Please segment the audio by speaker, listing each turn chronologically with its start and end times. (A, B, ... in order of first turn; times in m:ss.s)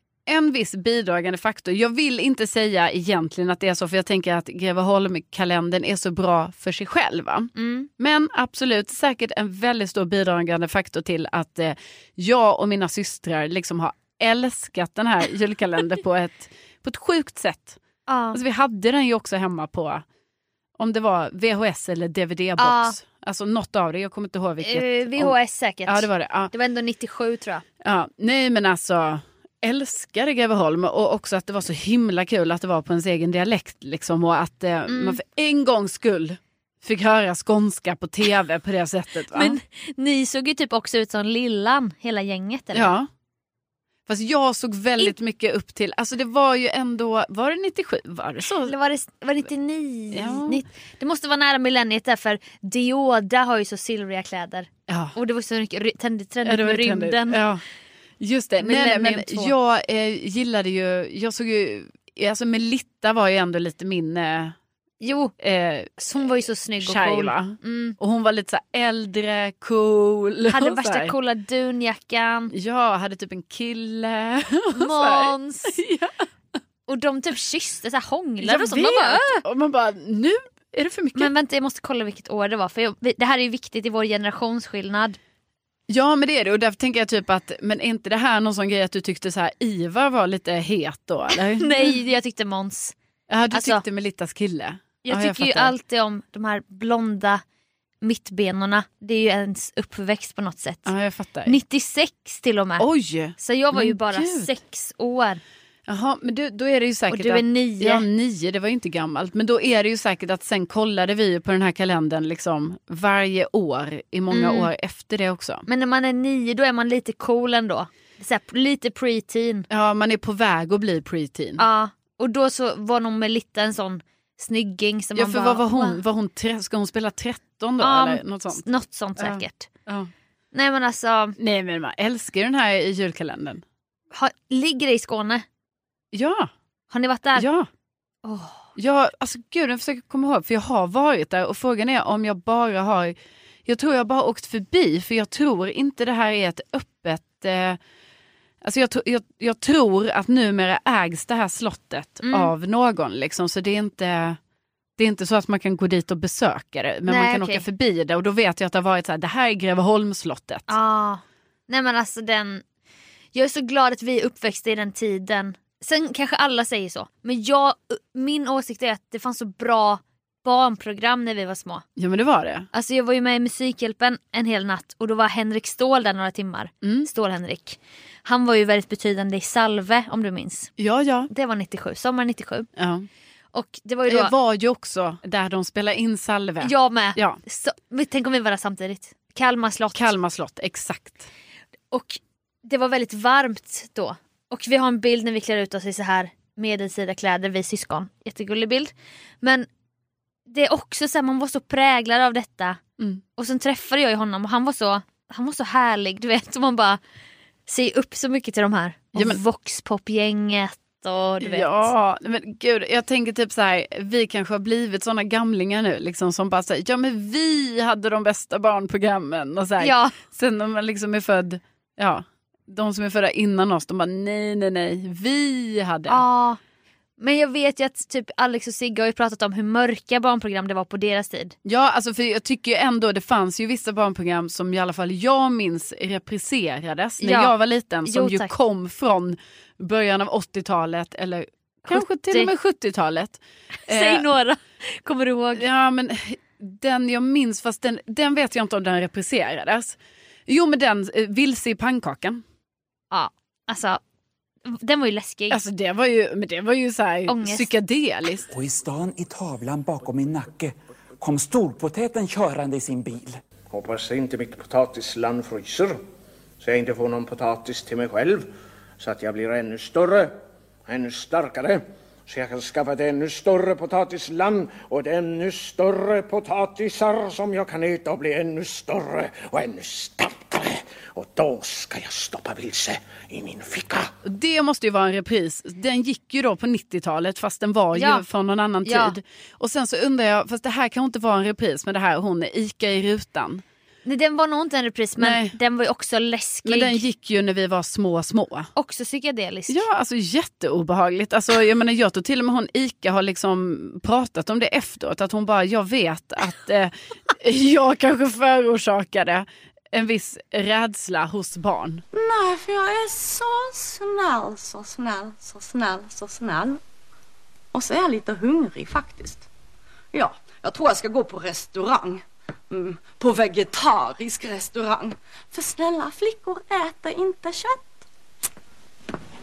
0:00.3-0:17.8 A
0:07.6-0:07.9 B
0:18.1-0:18.4 B
0:18.3-0:20.0 A
0:20.8-0:25.3 A
0:22.6-0:23.0 B
0:24.6-0:27.6 B
0:25.8-0:26.5 A
0:27.8-0:39.6 A
0:34.9-0:35.2 B
0:39.3-0:42.9 B
0:42.7-0:43.1 A
0:44.1-0:48.7 A
0:48.6-0:57.4 B
0:50.1-0:50.6 A
0:54.9-0:55.2 A
0:56.4-0:57.6 A
0:58.2-1:04.5 A
0:58.6-0:59.5 B
1:05.0-1:05.3 B
1:05.4-1:06.0 A
1:06.0-1:08.0 B
1:06.8-1:11.1 A
1:10.5-1:12.5 B
1:12.5-1:16.1 A
1:14.7-1:15.8 B
1:16.9-1:19.4 B
1:18.4-1:21.3 A
1:21.1-1:25.2 B
1:25.9-1:32.0 A
1:31.6-1:32.9 B
1:33.3-1:35.7 A
1:33.5-1:33.8 B
1:35.0-1:37.4 B
1:38.0-1:40.9 B
1:40.8-1:41.6 A
1:41.4-1:42.8 B
1:42.8-1:44.5 A
1:43.4-1:45.4 B
1:45.9-1:55.6 A
1:47.1-1:48.0 B
1:54.3-1:54.7 B
1:55.7-1:59.7 B
1:59.7-2:01.6 A
2:01.6-2:06.0 B
2:05.2-2:08.6 A
2:07.8-2:09.7 B
2:09.2-2:10.1 A
2:10.5-2:11.4 B
2:11.4-2:13.6 A
2:14.1-2:15.4 B
2:16.1-2:16.5 A
2:16.9-2:17.4 B
2:17.4-2:17.7 A
2:18.2-2:18.6 B
2:18.8-2:23.1 A
2:23.6-2:27.8 A
2:28.6-2:34.4 A
2:32.2-2:32.5 B
2:35.0-2:40.7 A
2:37.1-2:37.6 B
2:40.7-2:42.6 B
2:43.3-2:51.8 B
2:52.0-2:52.7 A
2:52.7-3:00.7 B
2:56.8-2:57.1 A
3:00.8-3:01.3 A
3:01.3-3:02.7 B
3:02.8-3:03.1 A
3:03.5-3:04.3 B
3:04.1-3:07.4 A
3:06.6-3:10.1 B
3:09.9-3:11.3 A
3:11.9-3:19.7 B
3:20.5-3:22.8 B
3:23.4-3:27.0 B
3:27.7-3:31.9 B
3:29.1-3:29.4 A
3:31.4-3:46.2 A
3:39.8-3:40.1 B
3:46.1-3:46.6 B
3:47.2-3:51.5 B
3:51.6-4:04.2 A
3:57.2-3:57.5 B
3:58.0-3:58.5 B
4:01.9-4:02.5 B
4:03.9-4:05.6 B
4:05.6-4:10.0 A
4:10.5-4:12.4 A
4:13.1-4:14.0 B
4:14.6-4:15.6 B
4:15.5-4:18.5 A
4:17.3-4:17.7 B
4:18.5-4:23.4 C
4:23.7-4:26.0 D
4:26.6-4:28.5 D
4:29.0-4:30.3 D
4:30.9-4:44.1 D
4:44.2-4:53.6 A
4:47.9-4:48.2 B
4:48.8-4:49.2 B
4:54.0-4:57.0 B
4:55.2-4:55.6 A
4:56.6-4:58.7 A
4:58.8-4:59.8 B
4:59.7-5:12.0 A
5:12.1-5:16.8 E
5:17.7-5:19.5 E
5:20.1-5:27.9 E